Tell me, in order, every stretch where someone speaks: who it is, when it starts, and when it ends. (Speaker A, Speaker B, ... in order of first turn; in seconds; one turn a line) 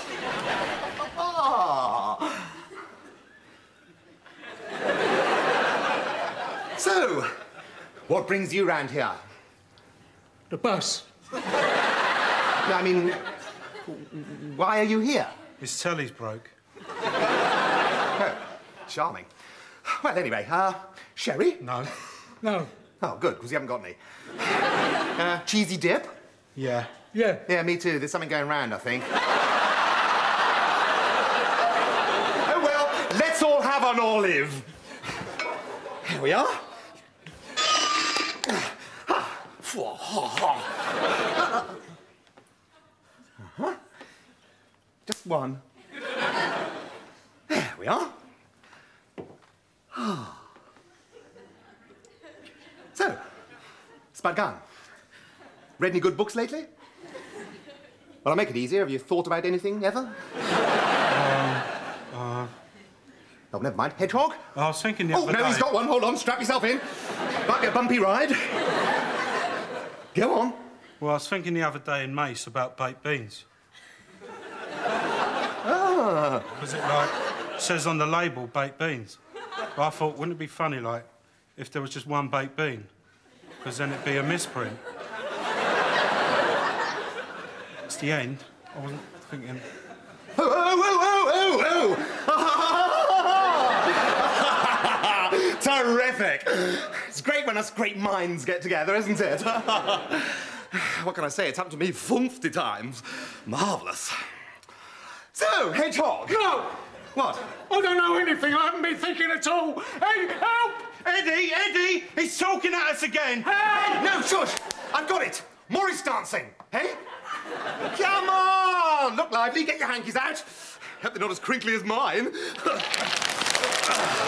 Speaker A: 1.0-2.5
Speaker A: 6.8-7.3
Speaker A: 8.1-9.2
Speaker B: 10.5-11.1
Speaker A: 12.6-13.2
Speaker A: 13.8-15.4
Speaker C: 15.6-16.5
Speaker A: 18.2-19.3
Speaker A: 19.9-21.7
Speaker C: 21.6-21.9
Speaker B: 22.4-22.7
Speaker A: 23.0-24.0
Speaker A: 25.1-26.1
Speaker C: 26.6-27.0
Speaker B: 27.1-27.4
Speaker A: 27.4-29.1
Speaker A: 32.4-34.7
Speaker A: 36.0-36.6
Speaker A: 39.1-40.7
Speaker A: 43.4-43.8
Speaker A: 45.1-45.6
Speaker A: 47.5-48.1
Speaker A: 49.9-50.4
Speaker A: 52.9-53.2
Speaker A: 54.1-54.6
Speaker A: 55.8-56.7
Speaker A: 58.2-60.1
Speaker C: 61.1-62.5
Speaker A: 63.5-64.5
Speaker C: 64.5-65.7
Speaker A: 65.1-68.5
Speaker A: 70.1-70.6
Speaker C: 71.0-73.5
Speaker A: 75.6-76.5
Speaker C: 76.6-79.2
Speaker C: 79.8-82.9
Speaker C: 83.6-84.8
Speaker C: 87.9-89.7
Speaker A: 90.3-104.2
Speaker A: 105.3-106.6
Speaker A: 107.1-107.5
Speaker B: 107.5-111.0
Speaker C: 110.9-113.5
Speaker B: 113.5-114.0
Speaker A: 113.6-117.0
Speaker A: 117.9-123.1